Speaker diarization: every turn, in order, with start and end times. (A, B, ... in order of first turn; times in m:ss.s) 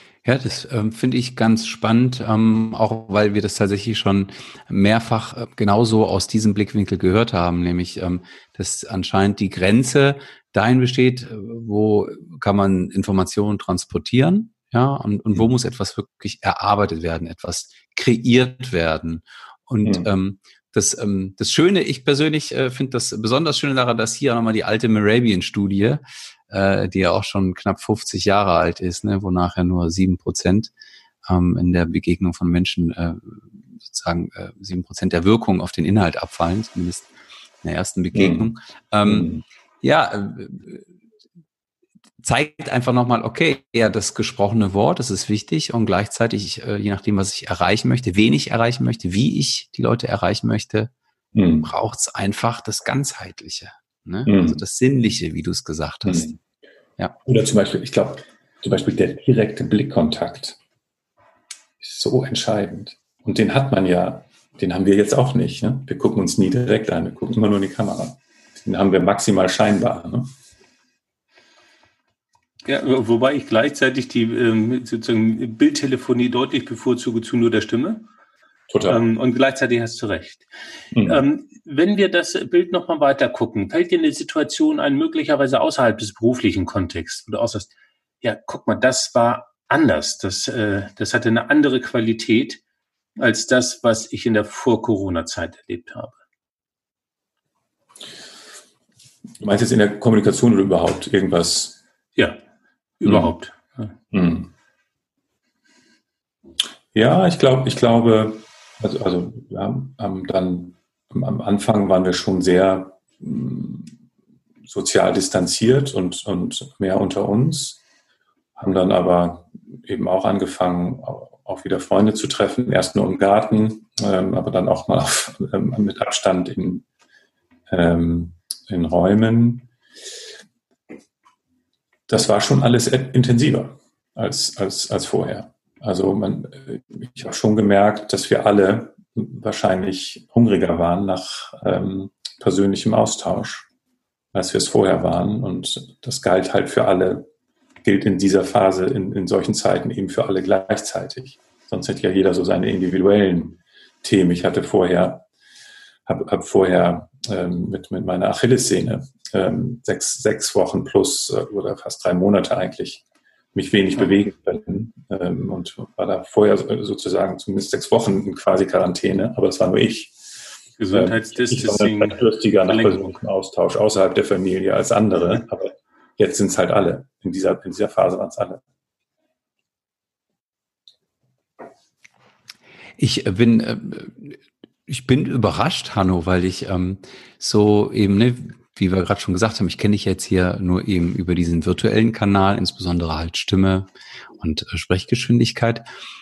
0:00.2-0:30.7 A
0:31.3-0:37.1 A
0:37.6-0:39.3 A
0:38.1-0:38.5 B
0:39.0-0:39.4 B
0:39.8-0:40.9 A
0:42.2-0:50.9 A
0:51.3-0:51.7 B
0:51.6-0:56.3 A
0:54.2-0:54.6 B
0:56.0-0:56.4 B
0:57.2-1:00.6 B
1:01.8-1:10.3 B
1:12.6-1:18.0 C
1:18.7-1:19.0 B
1:18.9-1:20.5 C
1:20.9-1:21.2 B
1:21.0-1:27.7 C
1:28.2-1:32.6 C
1:33.2-1:36.2 C
1:39.4-1:41.8 B
1:43.0-1:43.9 C
1:43.0-1:43.3 B
1:44.1-1:44.5 B
1:46.9-1:53.9 B
1:54.6-1:57.8 B
1:58.6-2:06.8 B
2:07.7-2:09.7 B
2:12.1-2:23.7 B
2:24.3-2:27.3 B
2:27.8-2:35.2 B
2:36.0-2:50.1 B
2:50.8-2:53.1 C
2:50.9-2:58.6 B
3:03.0-3:15.8 A